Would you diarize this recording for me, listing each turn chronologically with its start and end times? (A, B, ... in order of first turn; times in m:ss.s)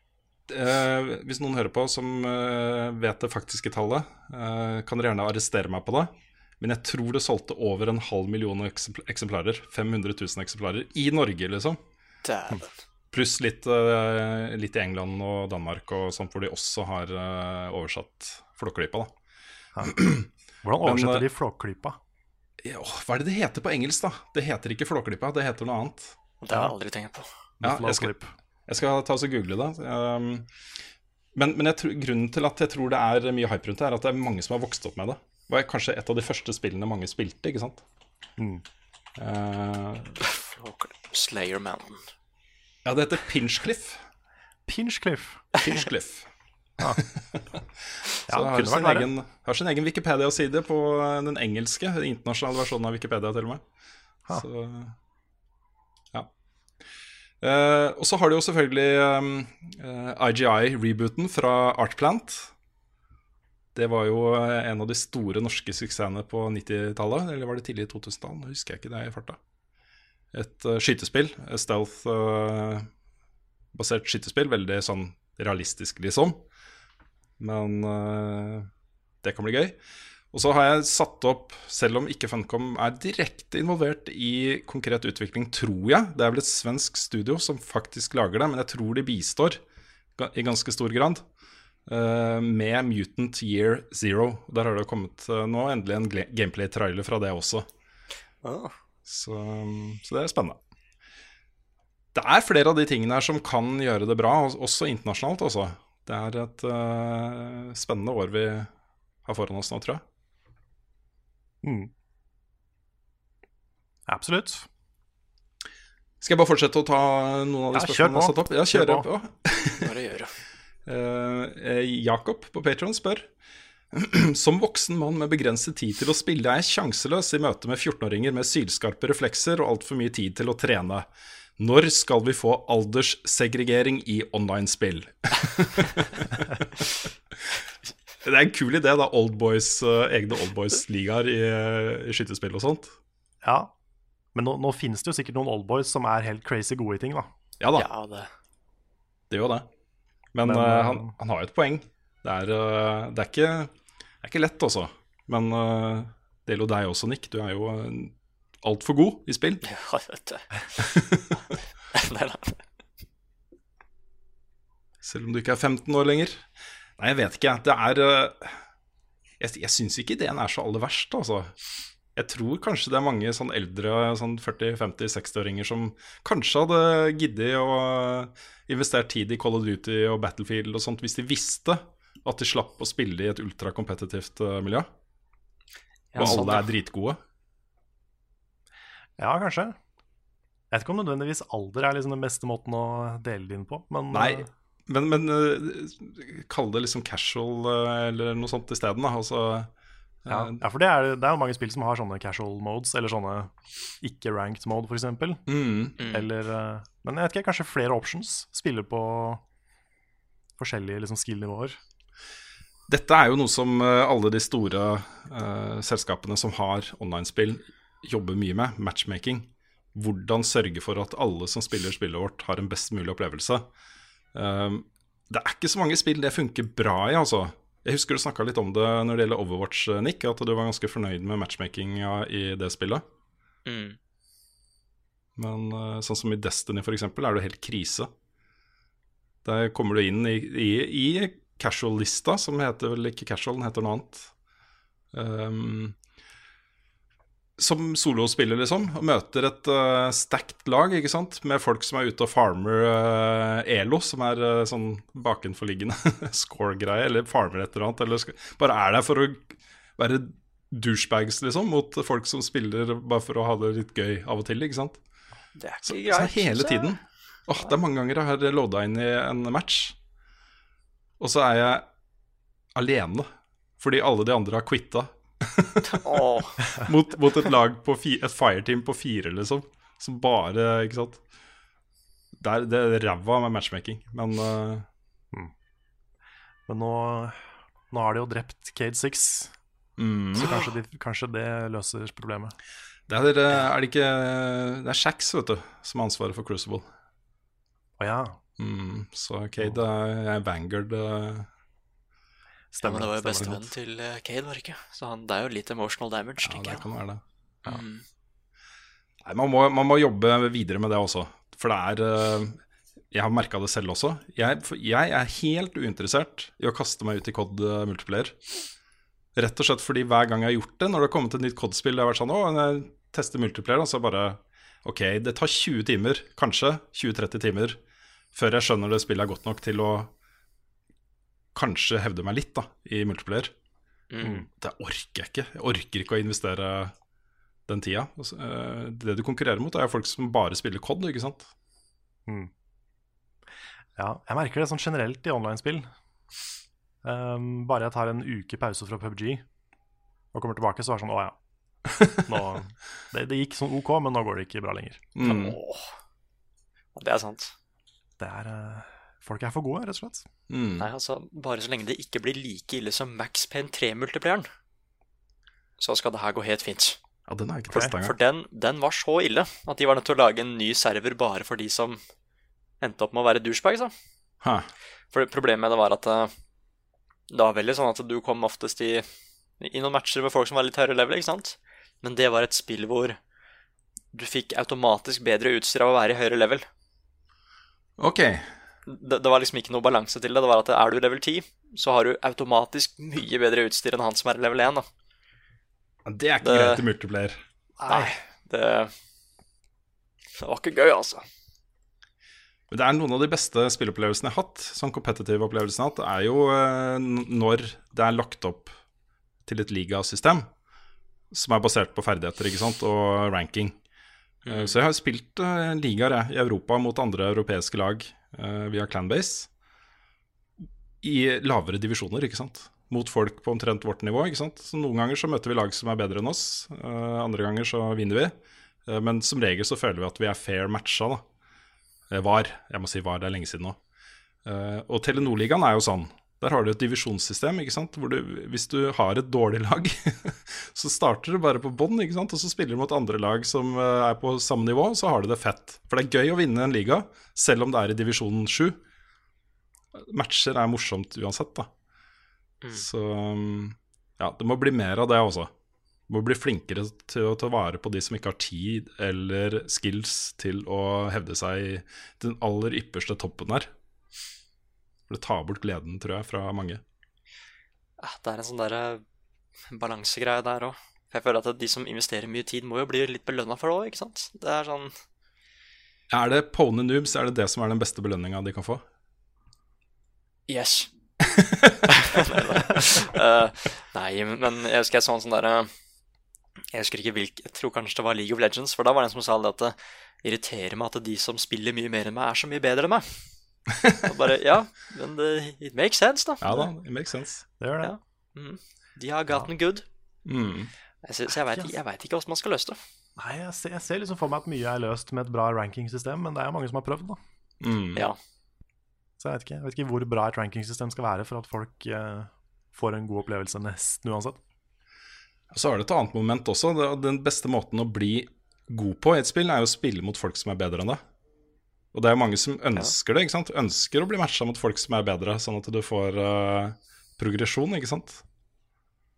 0:00.5-0:11.8 A
0:12.2-0:12.7 B
0:13.1-0:19.1 A
0:19.8-0:20.3 A
0:20.6-0:22.0 C
0:20.8-0:21.3 A
0:22.6-0:26.2 A
0:26.4-0:27.3 B
0:27.6-0:28.3 C
0:27.6-0:28.1 A
0:28.7-0:30.5 A
0:31.3-0:37.8 A
0:38.4-0:38.6 C
0:39.2-0:40.2 A
0:40.2-0:42.0 B
0:42.8-0:44.0 A
0:44.7-0:45.4 C
0:45.6-0:46.3 A
0:46.9-0:53.6 A
0:48.3-0:49.1 C
0:54.3-0:54.9 A
0:57.4-1:02.5 A
1:03.7-1:09.4 A
1:10.3-1:12.9 A
1:13.7-1:16.4 A
1:17.4-1:18.7 A
1:19.2-1:19.8 A
1:20.3-1:29.6 A
1:30.2-1:31.2 A
1:31.9-1:37.7 A
1:38.4-1:38.7 B
1:39.0-1:40.6 A
1:42.1-1:48.7 A
1:49.2-1:50.0 A
1:51.6-1:51.9 C
1:54.1-1:54.7 C
1:56.2-1:59.9 A
1:57.7-1:59.1 C
1:59.8-2:00.3 B
2:00.8-2:03.3 A
2:03.9-2:16.8 A
2:18.2-2:23.0 A
2:23.4-2:23.7 C
2:24.3-2:27.3 C
2:27.6-2:27.9 A
2:27.7-2:28.3 B
2:29.3-2:29.7 A
2:30.3-2:39.6 A
2:30.4-2:31.1 C
2:39.6-2:40.8 B
2:40.8-2:41.4 A
2:41.9-2:42.6 B
2:45.0-2:46.4 A
2:47.0-2:48.6 A
2:49.4-2:51.5 A
2:52.2-3:04.9 A
3:06.1-3:06.7 B
3:06.2-3:07.2 A
3:09.2-3:09.8 C
3:10.7-3:14.5 C
3:14.1-3:19.7 A
3:20.2-3:20.6 A
3:20.3-3:25.4 C
3:25.5-3:26.0 A
3:26.0-3:26.3 B
3:26.0-3:29.4 C
3:30.6-3:31.8 C
3:32.9-3:43.7 A
3:44.3-3:53.0 A
3:53.6-3:54.0 B
3:55.4-3:58.1 A
3:59.4-4:04.3 A
4:05.1-4:06.0 A
4:07.6-4:25.0 A
4:25.6-4:27.0 B
4:25.8-4:30.0 A
4:31.2-4:31.8 A
4:32.7-4:33.3 A
4:33.8-4:41.2 A
4:35.9-4:36.7 B
4:42.4-4:44.9 A
4:46.7-4:49.5 C
4:50.0-4:50.5 A
4:50.3-4:52.6 C
4:53.1-4:56.8 A
4:58.0-4:58.4 C
4:58.6-5:01.5 A
5:02.7-5:03.7 C
5:02.8-5:06.9 B
5:06.4-5:07.2 A
5:07.6-5:08.0 B
5:09.2-5:12.6 A
5:13.1-5:18.4 A
5:19.3-5:27.8 A
5:28.3-5:30.1 A
5:31.5-5:33.5 A
5:34.1-5:34.4 B
5:34.6-5:36.9 A
5:37.7-5:41.5 A
5:44.0-5:45.9 C
5:47.0-5:49.4 C
5:50.3-5:51.4 C
5:51.9-5:52.5 A
5:52.2-5:55.1 C
5:55.1-5:55.6 A
5:55.2-5:55.9 B
5:57.0-5:57.5 B
5:58.2-6:00.2 C
6:00.5-6:00.9 A
6:00.8-6:04.5 B
6:05.8-6:07.0 B
6:07.3-6:08.2 A
6:07.7-6:12.0 B
6:12.8-6:13.9 B
6:14.4-6:14.7 A
6:15.1-6:16.3 B
6:17.3-6:19.0 B
6:19.6-6:23.2 B
6:24.1-6:26.6 B
6:28.0-6:28.5 A
6:28.9-6:34.8 B
6:36.0-6:37.4 A
6:36.4-6:36.8 B
6:37.8-6:38.2 C
6:37.8-6:38.9 B
6:40.4-6:41.2 B
6:42.7-6:48.7 A
6:49.4-6:50.5 A
6:51.3-6:53.8 A
6:54.4-6:54.7 B
6:54.4-6:59.5 A
7:01.0-7:08.3 A
7:08.8-7:11.2 A
7:12.1-7:13.8 A
7:14.4-7:28.8 A
7:29.9-7:31.7 A
7:32.7-7:35.5 A
7:36.1-7:43.7 A
7:45.1-7:46.8 A
7:48.0-7:49.0 B
7:49.7-7:54.9 B
7:56.1-7:58.8 A
8:00.5-8:00.9 B
8:01.2-8:01.9 A
8:01.9-8:05.7 B
8:06.7-8:13.2 B
8:13.7-8:14.0 A
8:14.0-8:16.7 B
8:16.4-8:17.4 A
8:17.6-8:17.9 C
8:17.8-8:19.8 B
8:20.2-8:20.7 A
8:21.0-8:22.8 B
8:23.2-8:27.2 C
8:27.6-8:28.1 A
8:29.2-8:34.4 C
8:35.5-8:41.0 A
8:41.9-8:48.2 A